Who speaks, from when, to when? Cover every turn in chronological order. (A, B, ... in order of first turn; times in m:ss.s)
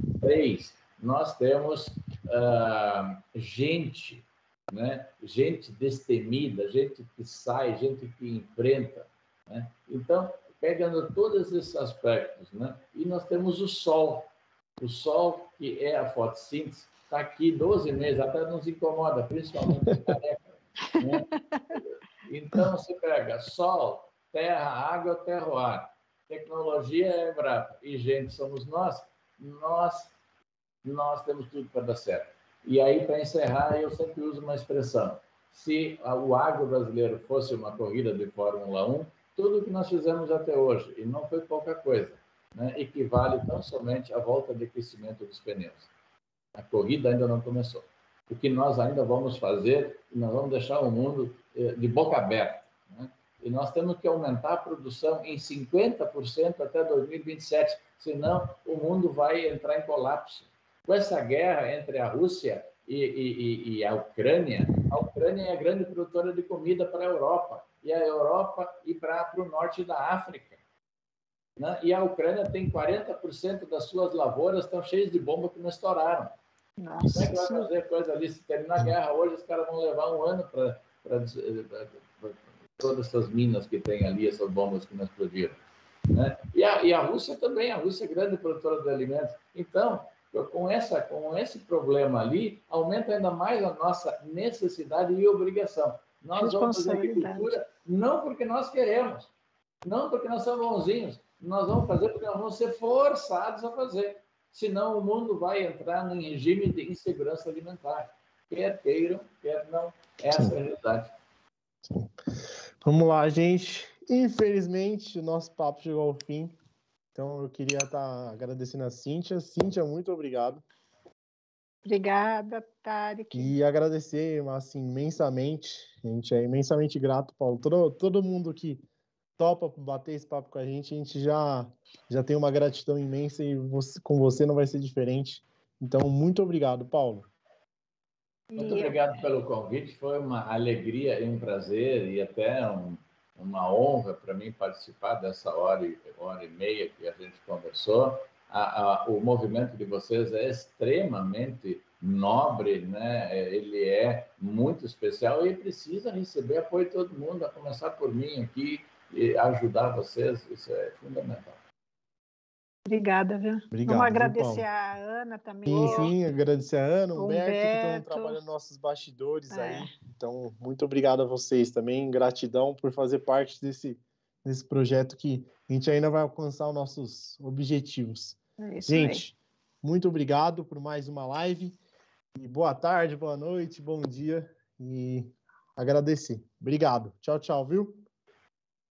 0:00.2-0:30.2 A
0:20.9-0:21.8 B
0:30.8-0:45.9 A
0:46.5-1:10.6 A
1:11.6-1:16.3 A
1:16.8-1:17.7 B
1:17.1-1:25.6 A
1:26.1-1:39.3 A
1:36.4-1:37.6 B
1:39.8-1:51.1 A
1:51.8-1:52.1 C
1:52.8-1:56.6 C
1:57.2-2:00.6 C
2:01.8-2:03.5 B
2:03.3-2:08.8 C
2:09.4-2:17.3 C
2:18.5-2:19.2 B
2:18.6-2:41.6 A
2:42.9-2:46.1 B
2:43.7-2:44.7 C
2:45.7-3:01.8 C
2:47.2-2:48.4 B
2:49.5-2:49.9 B
2:58.6-2:59.2 B
3:02.4-3:08.0 C